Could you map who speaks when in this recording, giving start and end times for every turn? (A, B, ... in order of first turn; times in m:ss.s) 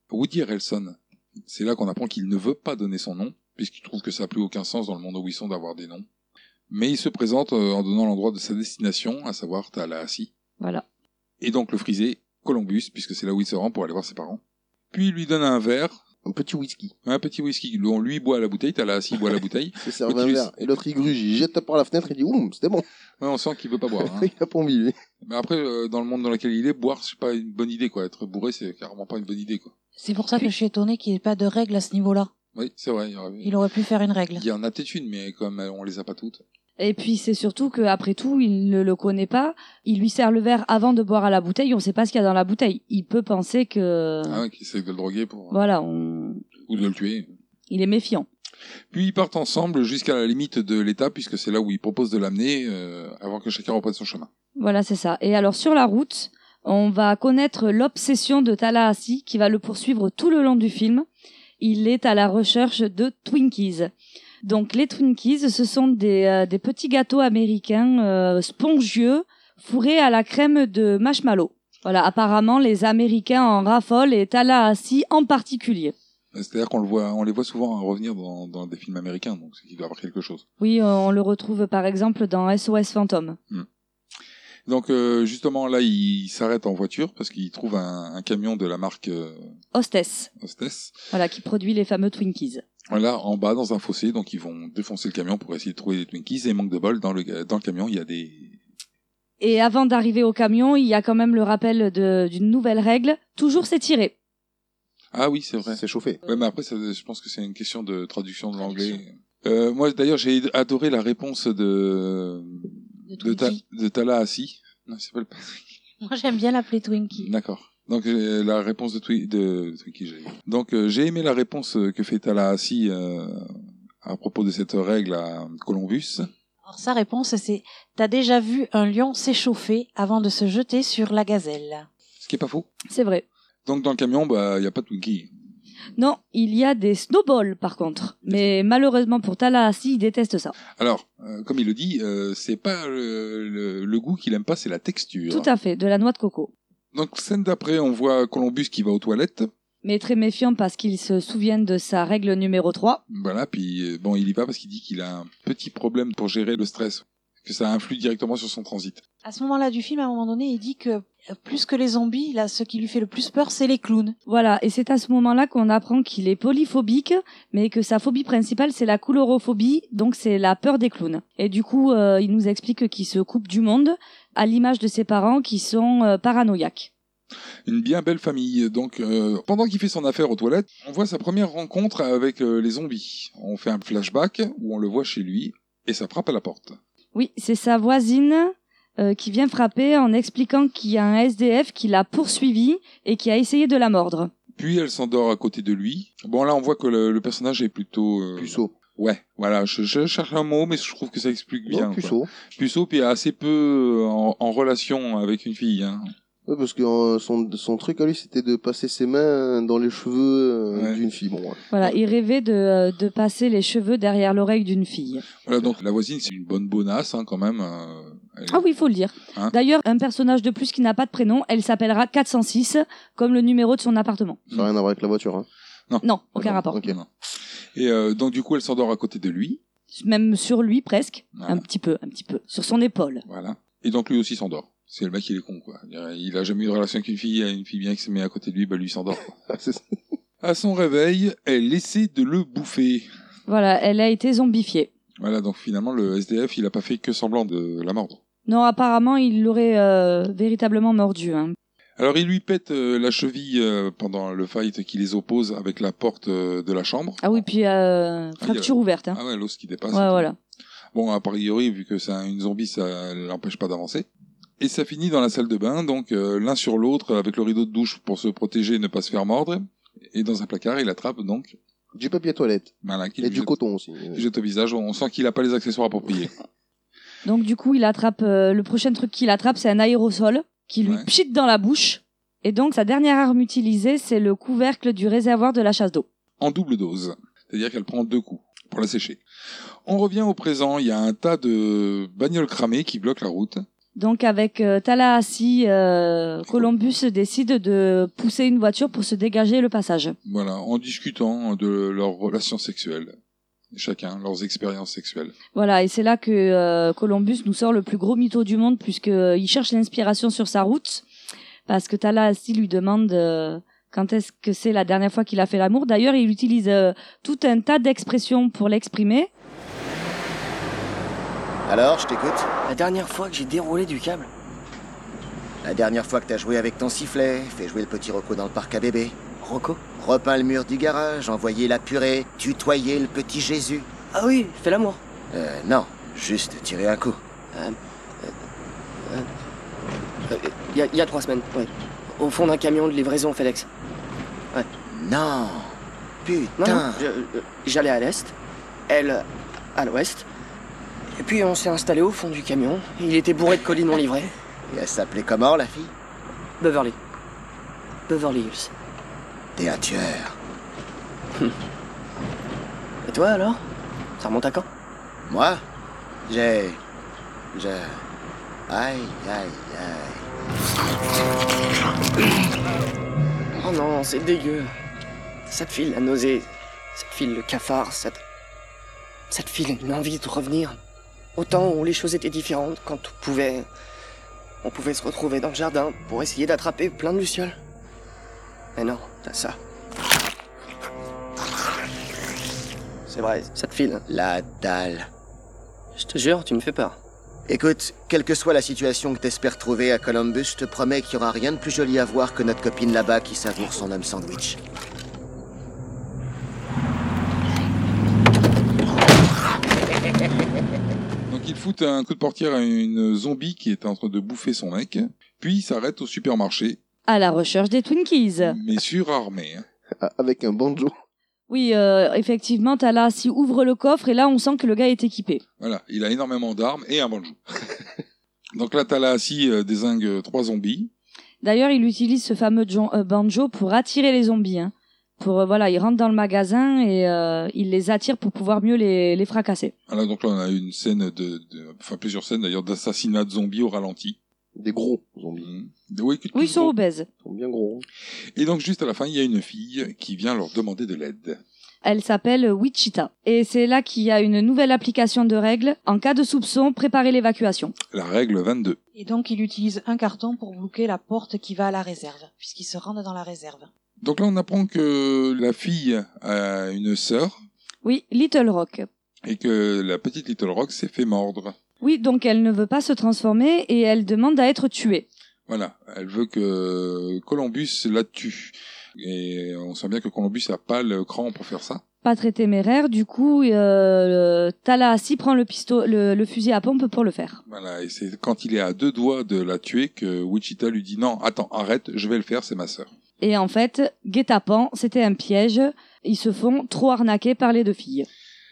0:00.1-0:06.0 A
0:06.7-0:10.3 A
0:11.4-0:14.4 A
0:14.9-0:16.0 A
0:16.2-0:16.9 B
0:17.0-0:20.8 A
0:19.8-0:22.8 B
0:23.2-0:24.3 A
0:24.0-0:24.9 B
0:25.2-0:29.7 A
0:30.0-0:32.3 C
0:32.5-0:33.6 A
0:33.4-0:34.4 C
0:34.3-0:36.4 A
0:36.8-0:44.4 D
0:44.3-0:45.6 A
0:45.5-0:46.4 D
0:46.7-0:47.3 A
0:47.7-0:48.3 D
0:48.9-0:54.3 A
0:54.6-1:01.0 D
1:01.6-1:03.9 D
1:04.4-1:15.9 D
1:16.3-1:20.4 A
1:20.6-1:23.4 D
1:24.6-1:29.5 A
1:29.7-1:30.3 D
1:30.4-1:31.0 A
1:31.1-1:32.6 D
1:32.9-1:38.6 A
1:39.4-1:44.1 D
1:45.1-1:55.6 A
1:45.7-1:46.2 B
1:48.6-1:49.0 C
1:53.1-1:53.6 C
1:56.0-1:57.3 C
1:57.1-2:06.3 A
2:06.6-2:11.8 C
2:12.2-2:12.7 A
2:12.9-2:13.2 D
2:13.6-2:15.3 A
2:16.0-2:20.5 D
2:20.7-2:25.5 A
2:25.3-2:26.5 D
2:26.9-2:29.5 A
2:29.8-2:33.0 D
2:33.1-2:39.0 A
2:39.2-2:44.1 C
2:44.2-2:56.9 D
2:57.6-3:06.8 A
3:07.1-3:14.3 D
3:14.6-3:26.1 A
3:18.4-3:18.7 B
3:21.7-3:22.3 B
3:26.4-3:31.6 B
3:30.7-3:31.0 A
3:31.7-3:35.2 D
3:35.4-3:38.6 A
3:38.5-3:44.4 D
3:44.5-3:45.5 B
3:45.9-3:47.1 A
3:46.0-3:46.8 D
3:46.5-3:47.0 B
3:47.7-3:49.6 A
3:49.9-3:53.2 D
3:51.3-3:51.6 A
3:53.3-3:59.3 A
3:59.5-4:00.0 B
4:00.4-4:03.1 A
4:03.5-4:04.9 D
4:05.2-4:08.2 A
4:08.4-4:11.6 D
4:12.0-4:17.4 A
4:17.2-4:19.2 D
4:18.4-4:20.3 A
4:19.9-4:20.4 D
4:20.9-4:24.1 A
4:24.6-4:31.6 A
4:31.9-4:34.2 B
4:32.8-4:33.5 A
4:34.1-4:36.3 A
4:37.2-4:46.0 D
4:46.4-4:49.2 A
4:49.8-4:53.6 A
4:54.0-5:00.2 D
5:00.2-5:03.1 A
5:03.7-5:05.3 A
5:05.5-5:11.0 D
5:11.7-5:19.3 D
5:21.6-5:22.5 E
5:22.7-5:24.3 F
5:25.6-5:29.2 E
5:29.4-5:29.8 F
5:29.9-5:33.9 E
5:34.1-5:35.0 F
5:35.3-5:37.2 E
5:37.5-5:38.3 F
5:40.3-5:43.7 F
5:44.9-5:47.0 E
5:46.6-5:48.3 F
5:48.9-5:50.3 F
5:51.2-5:54.3 F
5:54.7-5:55.9 E
5:56.6-5:57.0 F
5:58.1-5:58.7 F
5:59.6-6:00.4 E
6:03.0-6:03.6 F
6:04.2-6:04.6 F
6:05.3-6:05.6 E
6:06.3-6:06.8 E
6:07.5-6:08.0 E
6:08.7-6:10.2 E
6:13.6-6:14.7 F
6:15.5-6:18.2 F
6:19.3-6:20.8 F
6:21.4-6:23.7 F
6:24.6-6:27.6 F
6:28.8-6:29.6 F
6:33.1-6:34.0 F
6:34.1-6:35.1 E
6:36.0-6:37.0 F
6:37.5-6:44.6 E
6:51.3-6:56.8 A
6:57.1-6:58.6 D
6:58.4-6:59.6 A
7:00.0-7:00.9 B
7:01.5-7:05.4 D
7:05.6-7:07.4 A
7:08.5-7:10.9 A
7:11.4-7:19.7 D
7:19.9-7:24.2 A
7:24.5-7:25.5 B
7:25.4-7:26.7 A
7:26.3-7:27.1 D
7:27.2-7:27.8 B
7:28.4-7:31.4 A
7:31.8-7:37.7 D
7:37.9-7:38.8 A
7:38.9-7:43.7 C
7:44.0-7:47.3 A
7:47.8-7:48.9 D
7:49.2-7:51.5 A
7:51.8-7:55.1 D
7:55.5-8:01.8 A
8:02.0-8:07.4 D
8:07.5-8:12.9 A
8:13.2-8:18.1 D